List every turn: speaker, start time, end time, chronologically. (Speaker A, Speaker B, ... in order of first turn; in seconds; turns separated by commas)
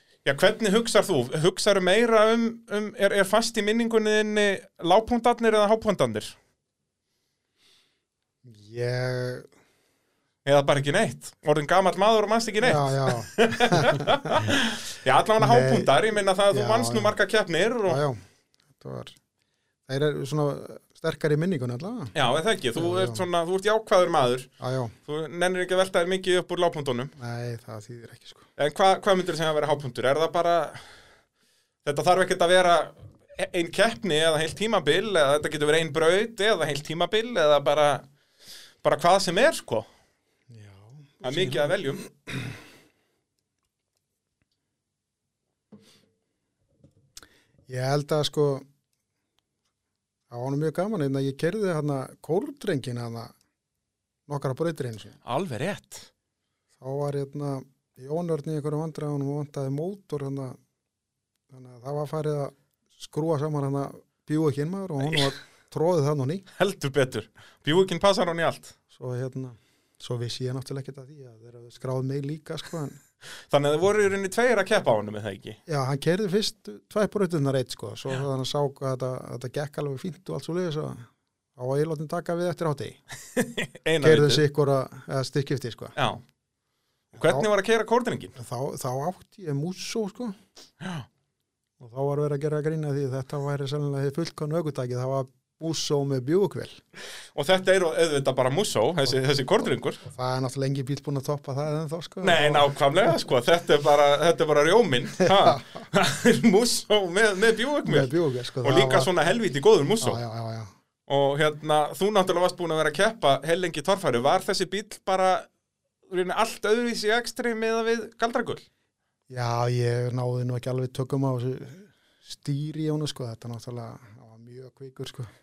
Speaker A: 0.2-6.3, Speaker B: 8.4-9.5, Speaker A: 10.4-18.0, Speaker B: 12.6-14.6, Speaker B: 15.4-15.9, Speaker B: 16.5-17.2, Speaker B: 17.9-18.2, Speaker B: 18.8-19.2, Speaker B: 19.9-22.1, Speaker A: 22.1-24.5, Speaker B: 22.8-23.3, Speaker B: 24.6-24.9, Speaker A: 25.1-27.1, Speaker B: 27.2-28.5, Speaker A: 28.6-30.8, Speaker A: 31.9-38.1, Speaker A: 38.8-39.9, Speaker B: 40.5-42.6, Speaker A: 41.2-42.1, Speaker B: 47.7-48.6, Speaker B: 50.3-53.3, Speaker B: 54.3-55.2, Speaker A: 55.3-56.1, Speaker B: 56.8-60.6, Speaker B: 61.5-66.5, Speaker A: 65.0-65.3, Speaker A: 66.6-68.8, Speaker B: 68.9-73.0, Speaker A: 73.5-75.6, Speaker B: 75.7-83.0, Speaker A: 83.3-84.4, Speaker B: 84.0-86.0, Speaker A: 86.0-86.2, Speaker A: 87.1-88.3, Speaker B: 87.2-87.5, Speaker B: 88.4-90.4, Speaker A: 90.8-91.1, Speaker B: 91.8-96.8, Speaker A: 97.3-100.0, Speaker B: 100.0-102.7, Speaker A: 102.2-108.1, Speaker B: 105.2-105.9, Speaker B: 107.8-109.1, Speaker A: 108.6-110.2, Speaker B: 110.0-110.7, Speaker A: 111.1-115.5, Speaker A: 116.1-118.6, Speaker B: 119.3-125.3